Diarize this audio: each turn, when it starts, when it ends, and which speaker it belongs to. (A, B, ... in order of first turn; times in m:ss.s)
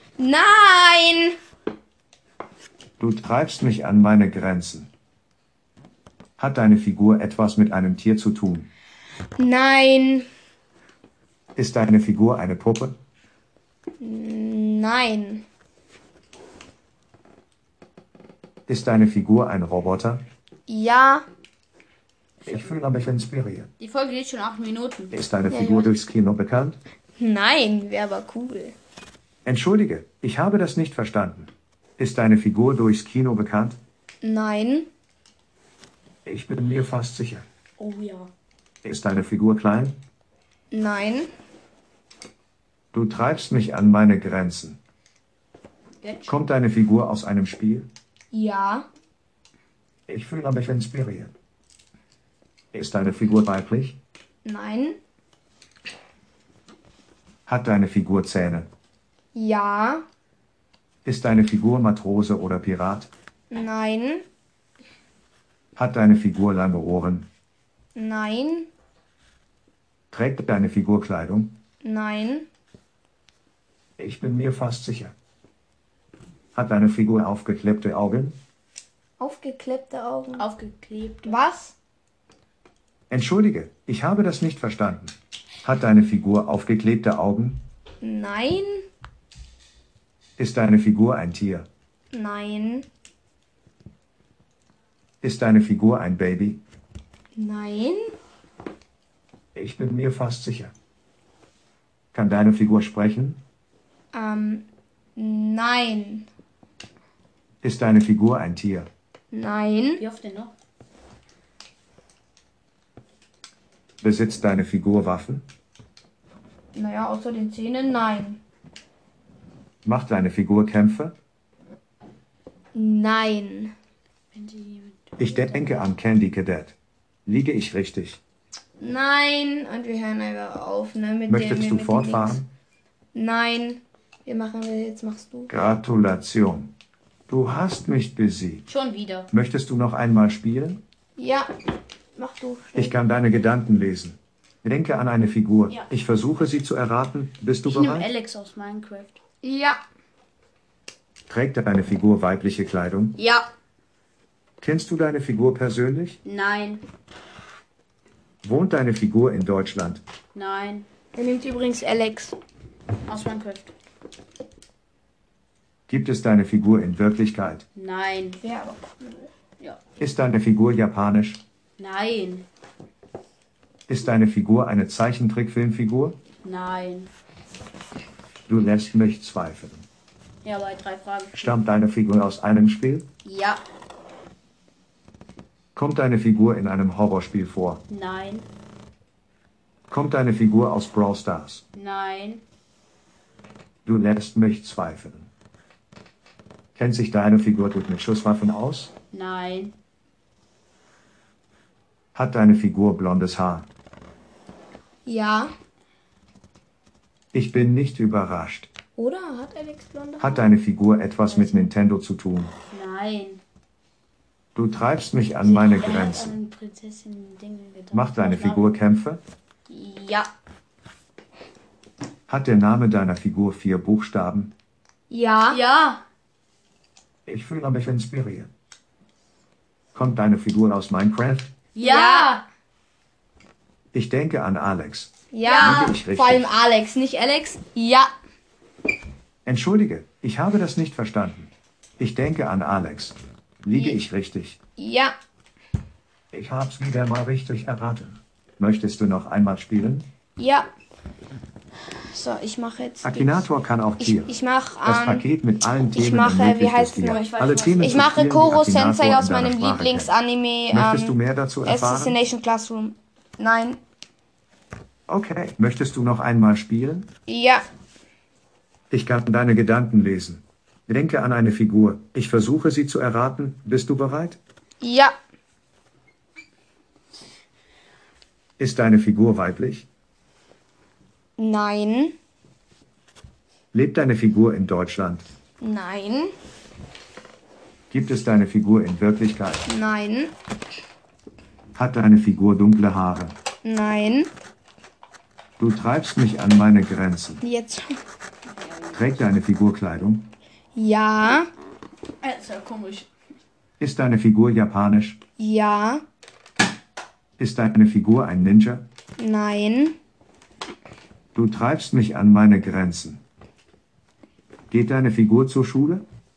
0:00.2-0:01.4 A
0:03.0-0:04.9 B
0:06.4-0:08.7 B
0:09.4-0:10.3 A
0:11.6-0:13.0 B
0:14.0-0:15.4 A
0:18.7-0:20.2 B
0:20.7-0:21.2 A
0:22.5-0:23.7 B
0:23.8-0:25.2 C
0:25.1-0:26.8 B
0:25.5-0:25.9 A
0:27.2-0:28.8 A
0:29.4-0:33.8 B
0:34.2-0:34.9 A
0:36.3-0:37.5 B
0:37.8-0:38.3 C
0:38.8-0:40.0 B
0:40.7-0:41.3 A
0:42.9-0:44.8 B
0:46.0-0:46.4 C
0:46.3-0:47.9 B
0:48.3-0:48.9 A
0:50.1-0:51.3 B
0:52.7-0:54.0 B
0:54.4-0:55.0 A
0:57.5-0:58.7 B
0:59.4-1:00.0 A
1:01.0-1:03.1 B
1:03.5-1:04.2 A
1:05.8-1:07.3 B
1:08.0-1:08.7 A
1:10.1-1:11.6 B
1:11.8-1:12.5 A
1:14.0-1:15.1 B
1:16.5-1:18.4 B
1:19.2-1:20.5 A
1:20.4-1:21.4 C
1:21.3-1:21.7 A
1:23.1-1:27.6 B
1:28.0-1:28.9 A
1:30.4-1:31.7 B
1:32.1-1:32.9 A
1:35.2-1:36.6 B
1:37.4-1:38.1 A
1:39.6-1:40.7 B
1:42.1-1:43.4 B
1:44.1-1:44.6 A
1:45.2-1:46.3 A
1:47.6-1:48.9 B
1:49.3-1:50.0 A
1:50.0-1:50.5 C
1:54.0-1:55.4 B
1:56.8-1:58.4 A
1:59.8-2:01.2 B
2:02.7-2:03.7 A
2:04.3-2:05.9 C
2:05.2-2:08.2 B
2:08.8-2:12.4 A
2:11.3-2:12.5 B
2:13.1-2:15.5 A
2:15.5-2:16.7 B
2:17.3-2:18.7 B
2:18.7-2:19.3 C
2:19.3-2:20.8 B
2:21.2-2:21.5 A
2:22.2-2:23.0 A
2:22.8-2:28.1 B
2:27.6-2:29.2 C
2:29.4-2:29.8 A
2:31.3-2:33.2 B
2:33.2-2:33.5 C
2:34.6-2:36.2 B
2:36.2-2:36.8 C
2:38.4-2:40.0 B
2:40.3-2:40.9 C
2:41.2-2:42.4 A
2:43.1-2:43.7 C
2:45.9-2:47.6 B
2:47.8-2:48.4 C
2:48.4-2:49.3 A
2:50.0-2:51.4 B
2:51.8-2:52.5 C
2:53.9-2:56.2 B
2:56.4-2:57.1 C
2:58.5-2:59.9 B
3:00.4-3:01.6 C
3:01.4-3:03.1 B
3:03.2-3:03.6 C
3:05.8-3:07.8 B
3:07.9-3:08.5 C
3:09.9-3:11.6 B
3:11.8-3:12.4 C
3:13.8-3:15.3 B
3:16.8-3:18.9 B
3:19.1-3:19.7 C
3:22.2-3:23.7 B
3:25.1-3:25.5 A
3:27.3-3:28.7 B
3:29.0-3:30.5 A
3:30.2-3:32.5 B
3:31.3-3:31.7 C
3:32.7-3:33.4 C
3:34.6-3:36.3 B
3:35.4-3:38.7 C
3:37.9-3:39.2 B
3:39.7-3:40.3 C
3:42.3-3:44.5 B
3:45.1-3:45.6 A
3:45.5-3:46.0 C
3:47.3-3:48.5 B
3:49.9-3:51.5 B
3:51.8-3:52.4 C
3:51.8-3:52.4 A
3:53.9-3:56.5 B
3:55.3-3:58.1 A
3:55.4-3:56.0 C
3:59.4-4:04.6 B
4:04.8-4:05.2 A
4:06.3-4:10.1 B
4:10.4-4:10.7 A
4:12.1-4:13.4 A
4:13.0-4:14.3 B
4:14.0-4:15.3 A
4:14.8-4:20.1 B
4:15.9-4:23.8 A
4:17.0-4:18.0 C
4:20.7-4:22.2 B
4:25.1-4:27.1 B
4:27.3-4:27.6 A
4:28.9-4:34.4 B
4:34.8-4:35.2 A
4:38.6-4:39.9 B
4:41.4-4:42.2 A
4:43.7-4:45.3 B
4:45.6-4:46.3 A
4:47.9-4:49.7 B
4:49.7-4:50.3 A
4:51.8-4:53.4 B
4:53.6-4:54.3 A
4:55.6-4:57.4 B
4:57.4-4:57.9 A
4:58.5-4:59.2 C
4:58.9-5:00.3 B
5:00.8-5:01.5 A
5:02.2-5:03.1 C
5:03.8-5:05.2 B
5:05.4-5:06.0 A
5:07.4-5:08.8 B
5:09.2-5:10.0 A
5:11.3-5:13.2 B
5:14.7-5:16.0 B